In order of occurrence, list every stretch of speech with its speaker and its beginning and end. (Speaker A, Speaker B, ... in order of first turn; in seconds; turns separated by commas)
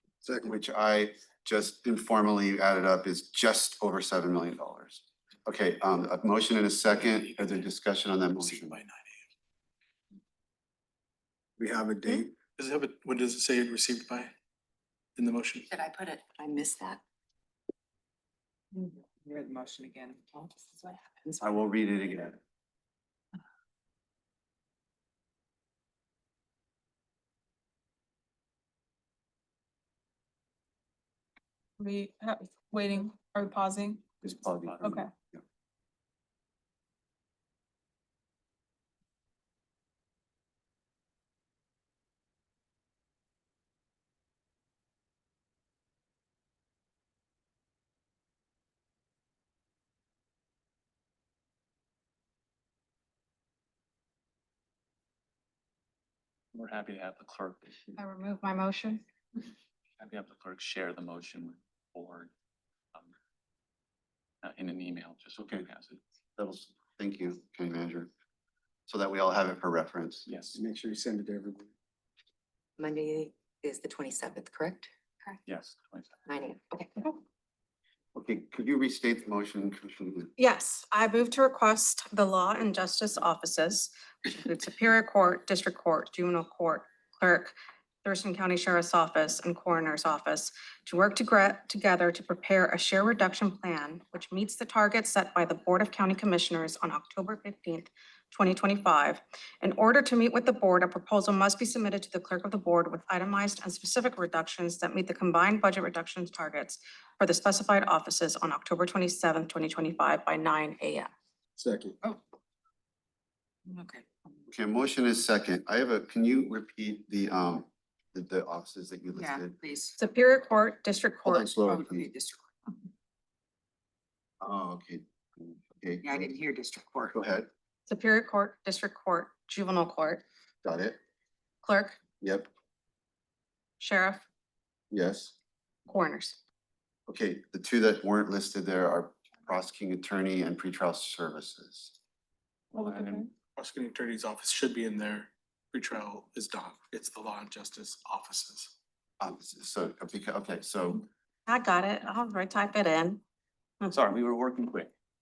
Speaker A: 0.2-8.8, Speaker B: 7.0-7.5, Speaker B: 8.4-9.2, Speaker C: 11.6-12.3, Speaker B: 12.6-14.3, Speaker B: 15.2-15.7, Speaker D: 15.7-17.0, Speaker E: 19.1-20.9, Speaker D: 20.3-21.4, Speaker A: 21.4-22.4, Speaker F: 31.8-34.0, Speaker A: 34.2-35.4, Speaker G: 34.6-35.0, Speaker F: 34.8-35.1, Speaker G: 56.5-57.8, Speaker H: 58.0-59.0, Speaker G: 60.0-62.3, Speaker G: 64.4-66.0, Speaker A: 65.4-65.7, Speaker A: 66.4-68.1, Speaker A: 68.9-70.3, Speaker G: 70.3-70.6, Speaker C: 70.5-71.7, Speaker D: 72.8-75.4, Speaker G: 75.4-76.2, Speaker D: 76.3-77.2, Speaker A: 78.1-80.3, Speaker H: 80.4-111.1, Speaker C: 111.6-112.0, Speaker E: 113.7-114.1, Speaker A: 114.5-119.6, Speaker E: 119.1-120.0, Speaker H: 120.0-121.5, Speaker A: 121.2-122.1, Speaker E: 121.6-122.5, Speaker A: 124.4-126.3, Speaker E: 126.0-127.1, Speaker A: 127.1-127.5, Speaker H: 127.9-130.2, Speaker A: 130.6-131.0, Speaker H: 131.6-132.0, Speaker A: 132.2-132.5, Speaker H: 133.8-134.2, Speaker A: 134.9-135.3, Speaker H: 135.9-136.4, Speaker A: 137.1-141.9, Speaker G: 142.7-143.2, Speaker F: 142.7-143.2, Speaker B: 143.6-148.7, Speaker A: 149.2-151.1, Speaker H: 151.5-153.2, Speaker G: 153.9-154.9